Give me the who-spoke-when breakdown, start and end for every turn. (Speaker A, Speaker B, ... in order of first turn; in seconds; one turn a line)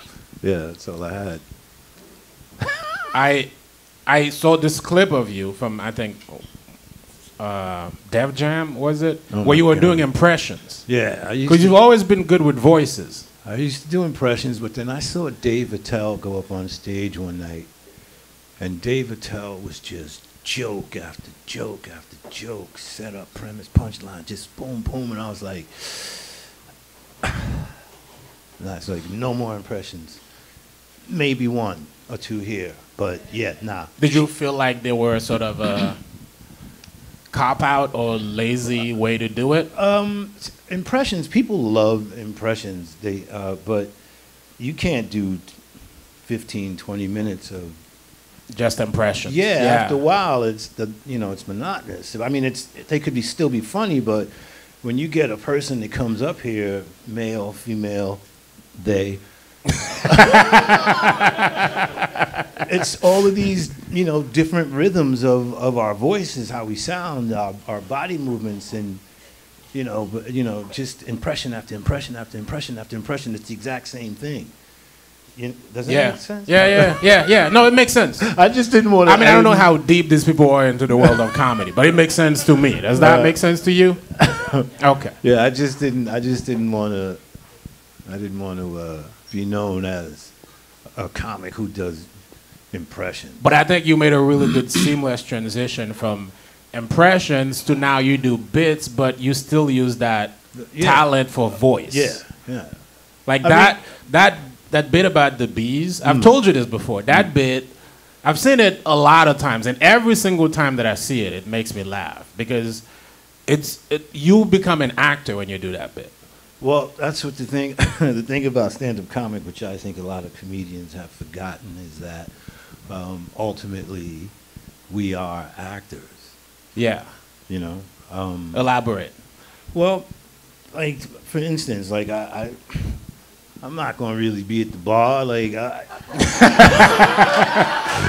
Speaker A: 0.4-1.4
Speaker B: 3.1-3.5
Speaker B: 4.0-6.5
Speaker B: 7.4-10.9
Speaker A: 9.3-10.1
Speaker A: 10.8-11.7
Speaker B: 11.4-13.3
Speaker A: 13.4-17.7
Speaker A: 18.6-26.5
Speaker A: 28.6-30.2
Speaker A: 31.1-34.2
Speaker B: 34.0-36.0
Speaker B: 37.3-39.7
Speaker A: 39.7-43.9
Speaker A: 44.6-45.5
Speaker A: 46.2-47.8
Speaker B: 48.5-50.0
Speaker A: 49.2-54.3
Speaker A: 54.8-58.2
Speaker A: 58.8-59.2
Speaker A: 60.0-61.2
Speaker B: 61.0-61.6
Speaker A: 62.6-69.0
Speaker A: 69.7-74.5
Speaker A: 75.4-77.0
Speaker B: 75.8-78.3
Speaker A: 78.2-79.7
Speaker B: 79.0-84.0
Speaker A: 80.9-81.2
Speaker A: 83.0-83.3
Speaker A: 84.2-84.7
Speaker B: 84.8-85.2
Speaker A: 85.2-87.2
Speaker A: 88.1-90.3
Speaker A: 91.0-92.1
Speaker A: 92.7-93.4
Speaker B: 93.4-102.2
Speaker A: 100.5-102.8
Speaker B: 103.2-107.7
Speaker A: 103.4-103.7
Speaker A: 106.0-106.3
Speaker B: 108.2-112.8
Speaker B: 113.5-116.1
Speaker A: 116.6-124.3
Speaker A: 124.9-126.3
Speaker B: 126.7-127.1
Speaker A: 127.5-128.6
Speaker B: 128.5-129.1
Speaker A: 129.7-130.1
Speaker A: 130.7-133.0
Speaker A: 133.6-137.2
Speaker B: 136.6-137.6